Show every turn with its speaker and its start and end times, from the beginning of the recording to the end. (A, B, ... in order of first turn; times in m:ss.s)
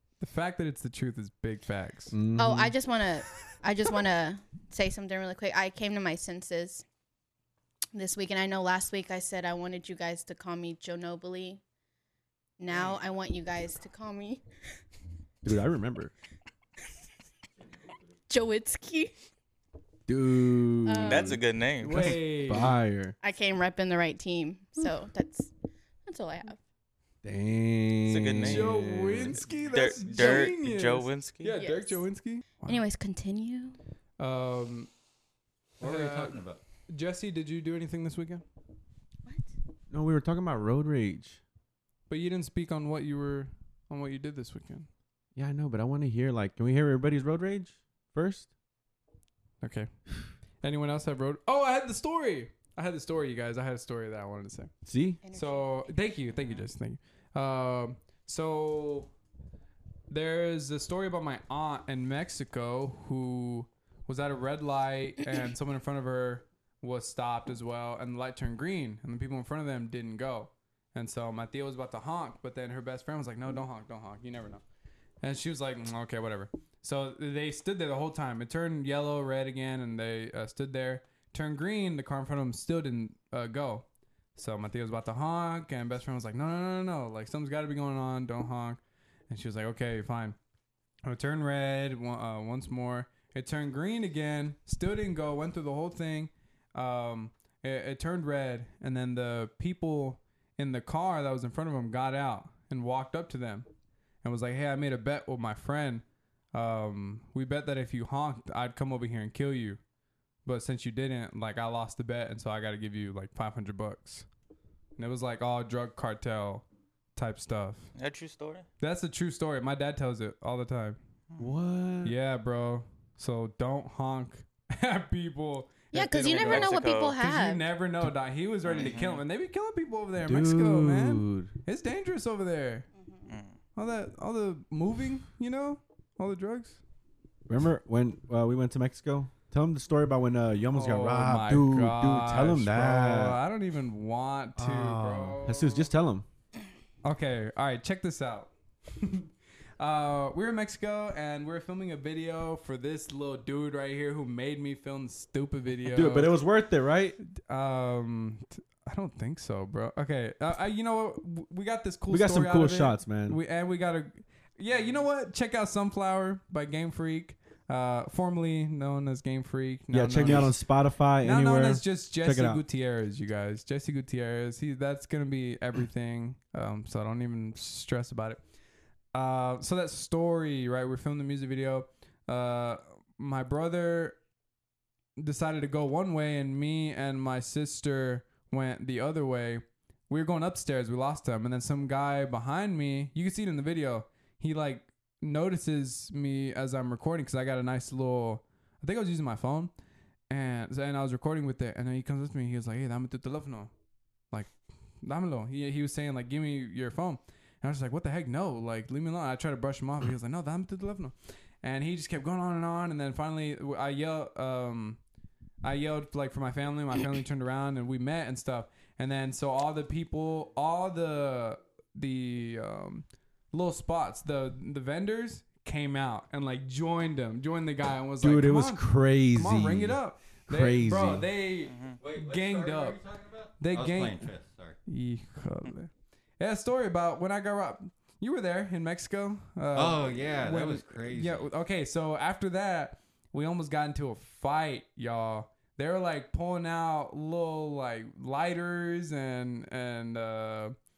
0:00.2-0:02.2 A
0:02.1-0:02.8 B
0:02.4-0:06.8 C
0:07.9-0:11.6 C
0:12.6-0:14.4 C
0:15.4-0:16.1 B
0:18.3-0:19.1 C
0:20.1-0:23.2 B
0:20.9-0:21.4 C
0:21.0-0:22.2 D
0:21.8-0:22.8 A
0:23.2-0:25.5 C
0:26.0-0:26.6 C
0:27.2-0:29.4 B
0:28.1-0:28.7 D
0:28.4-0:32.8 A
0:29.6-0:31.6 D
0:30.0-0:30.5 E
0:31.6-0:32.0 C
0:32.7-0:33.8 C
0:34.2-0:34.9 A
0:35.8-0:36.6 E
0:35.8-0:38.4 A
0:39.9-0:41.4 B
0:42.1-0:44.9 A
0:45.4-0:48.5 B
0:49.6-0:49.9 A
0:50.6-0:54.7 A
0:54.8-0:55.2 B
0:55.2-0:55.9 C
0:55.3-0:59.1 A
1:00.1-1:14.6 A
1:15.2-1:30.4 A
1:31.0-1:43.7 A
1:44.2-1:49.8 A
1:50.4-1:54.2 A
1:55.0-1:57.9 A
1:58.0-1:58.6 D
1:58.8-2:01.0 A
2:01.4-2:02.1 B
2:02.0-2:12.9 A
2:05.9-2:07.6 C
2:06.2-2:07.2 D
2:08.6-2:09.2 D
2:10.2-2:11.5 B
2:13.0-2:13.3 C
2:13.3-2:13.6 D
2:13.8-2:16.8 A
2:17.5-2:23.4 B
2:20.7-2:25.9 A
2:24.6-2:26.3 B
2:27.0-2:36.3 A
2:35.9-2:37.2 B
2:37.3-2:50.6 A
2:42.1-2:43.4 B
2:49.9-2:52.6 B
2:51.2-2:58.4 A
2:59.1-3:04.2 A
3:05.2-3:19.7 A
3:20.3-3:23.7 A
3:24.3-3:35.0 A
3:35.6-3:53.0 A
3:48.2-3:51.3 B
3:51.7-3:52.0 D
3:52.0-3:54.8 E
3:53.6-3:54.3 A
3:54.9-4:10.8 A
3:59.8-4:01.5 E